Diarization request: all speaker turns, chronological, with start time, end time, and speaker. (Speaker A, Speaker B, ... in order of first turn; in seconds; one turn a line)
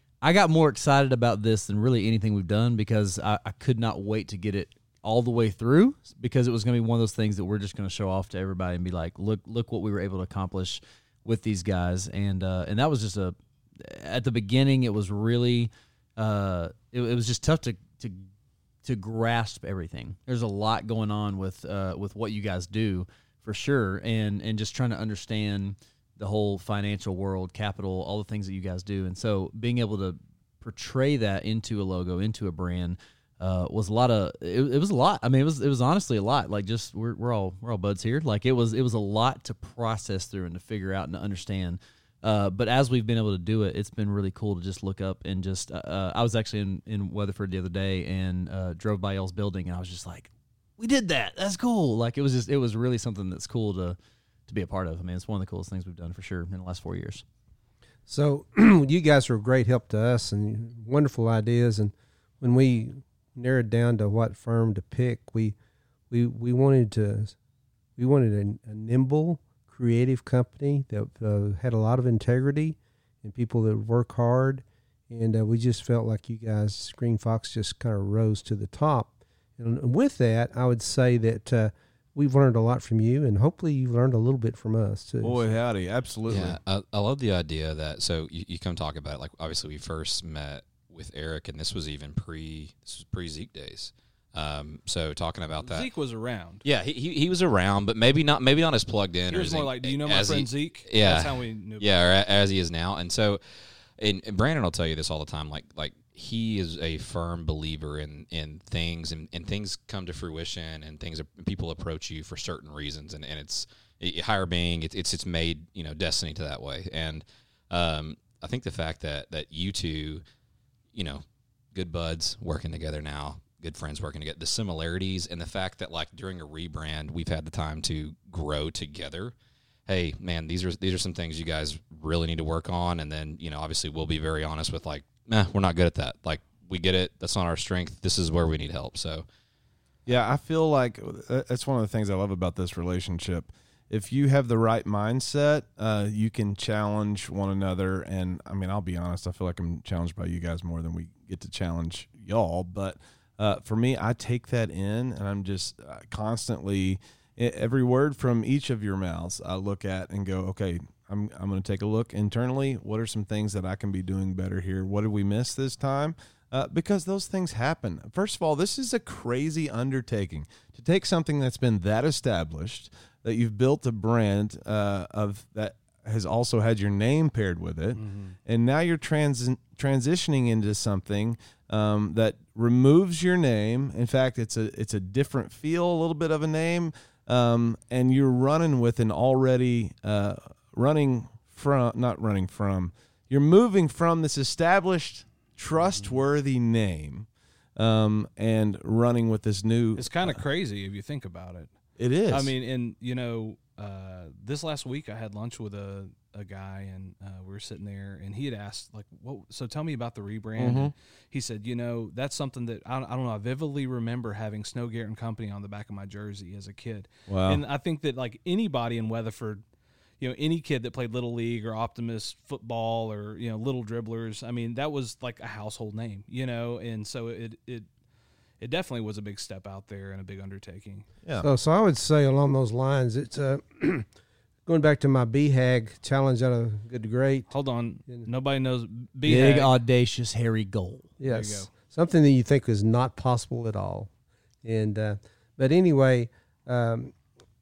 Speaker A: 0.2-18.3
Speaker A: 18.8-57.2
Speaker B: 58.1-65.5
Speaker B: 66.1-67.3
Speaker B: 68.0-85.5
Speaker C: 85.2-86.6
Speaker D: 86.3-95.9
Speaker E: 95.6-96.6
Speaker D: 96.6-120.2
Speaker E: 99.3-101.9
Speaker D: 120.9-121.2
Speaker D: 121.7-129.3
Speaker D: 129.9-139.2
Speaker C: 140.1-200.4
Speaker E: 177.9-178.4
Speaker E: 200.0-201.7
Speaker C: 202.0-202.5
Speaker E: 202.3-219.6
Speaker C: 210.6-210.9
Speaker C: 217.3-217.6
Speaker E: 220.2-227.9
Speaker E: 228.6-231.1
Speaker B: 231.4-234.1
Speaker B: 234.7-237.5
Speaker E: 237.5-239.7
Speaker A: 239.2-241.2
Speaker B: 241.2-244.1
Speaker E: 241.3-241.7
Speaker B: 244.6-247.2